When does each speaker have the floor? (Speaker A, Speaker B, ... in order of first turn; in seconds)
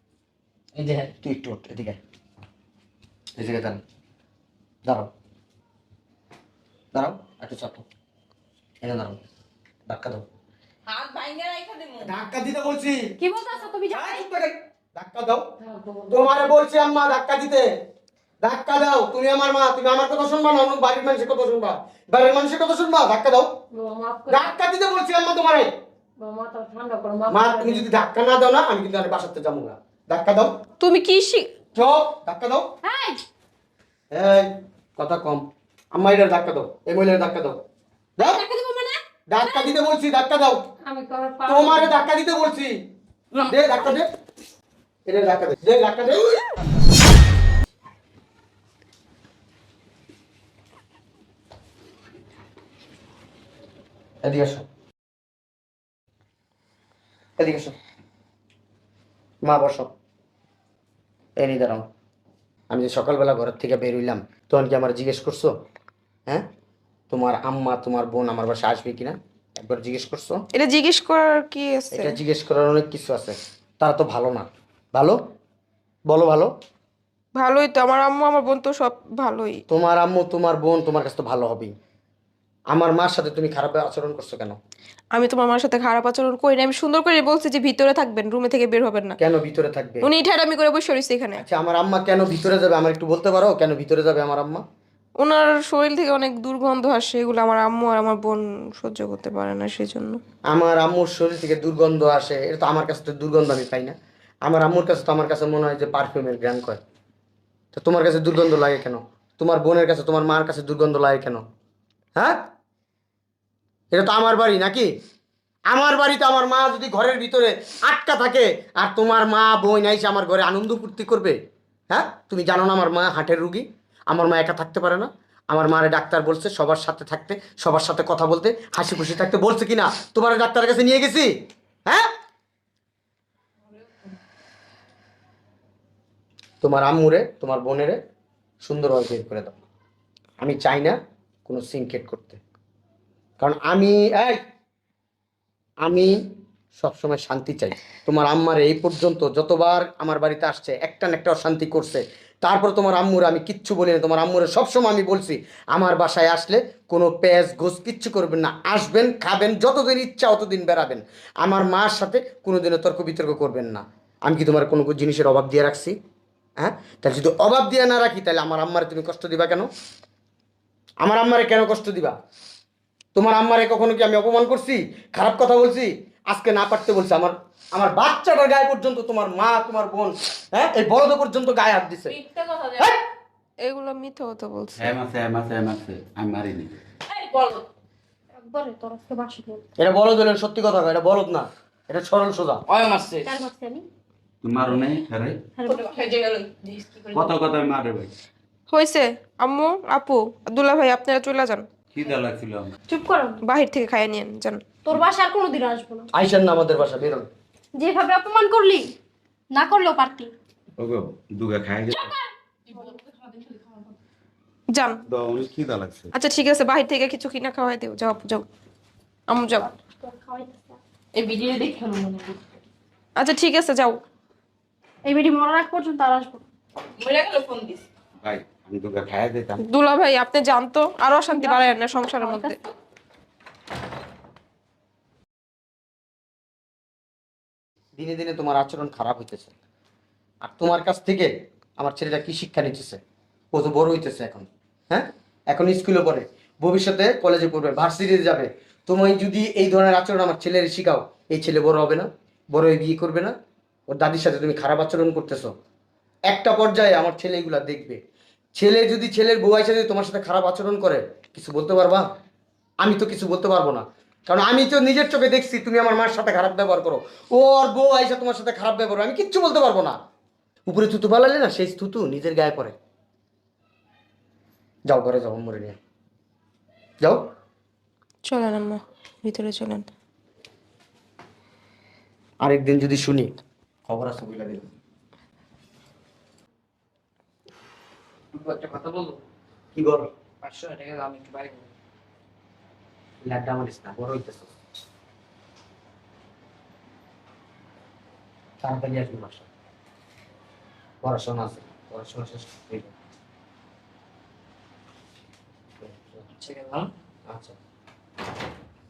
Speaker A: 0.8-1.1, 43.3-43.6, 192.7-193.3, 288.3-289.2, 290.4-291.7, 306.4-306.9
Speaker B: 1.2-2.0, 3.4-3.8, 6.9-7.8, 8.8-9.2, 9.9-10.2, 12.0-13.1, 13.9-15.5, 16.1-17.7, 18.4-23.5, 24.3-25.7, 27.3-30.5, 31.8-32.7, 34.1-37.6, 38.2-38.4, 39.3-40.6, 41.5-42.8, 43.5-44.1, 45.0-46.5, 54.2-54.6, 57.4-57.8, 59.4-59.9, 61.4-61.9, 62.7-65.5, 67.1-70.4, 71.9-75.2, 76.1-76.5, 79.7-81.7, 82.7-84.6, 89.2-90.1, 91.4-94.6, 100.5-106.8, 107.8-111.4, 112.2-112.4, 113.9-114.9, 115.7-121.4, 121.9-131.3, 136.6-138.0, 138.6-139.6, 140.4-142.4, 143.4-144.4, 145.8-146.2, 146.8-166.0, 166.6-169.7, 171.0-172.2, 173.1-182.1, 189.8-192.6, 206.1-207.3, 238.0-239.5, 240.4-243.0, 243.5-253.3, 253.9-255.5, 256.3-258.0, 258.6-262.0, 262.8-270.0, 270.6-272.7, 274.9-275.8, 282.4-283.3, 283.9-284.7, 289.8-290.1, 293.2-294.5, 298.6-299.4, 301.0-302.9, 305.8-306.2, 307.3-307.5
Speaker C: 10.9-12.1, 182.1-182.9, 187.1-187.7, 195.7-197.3, 212.7-213.9, 221.1-222.4, 227.0-227.9
Speaker D: 13.2-14.2, 32.8-33.2, 38.2-39.6, 188.4-189.6, 193.2-193.8, 195.6-196.0, 202.9-203.4, 204.8-206.1, 207.8-208.9, 209.5-210.3, 211.9-213.0, 219.5-220.8, 225.0-226.4, 231.3-232.6
Speaker E: 15.6-16.5, 23.7-24.5, 26.2-27.9, 40.9-42.0
Speaker F: 30.8-31.5, 70.5-72.2, 77.3-79.6, 85.1-89.2, 90.0-91.4, 95.2-100.2, 183.6-184.9, 198.7-201.6, 203.4-204.6, 214.7-215.0, 216.1-218.5, 219.3-219.7, 223.2-224.0, 229.7-232.6, 278.2-279.9
Speaker G: 184.8-186.8, 194.4-195.4, 197.1-198.1, 201.9-202.8, 210.8-212.2, 215.1-216.1, 228.2-229.6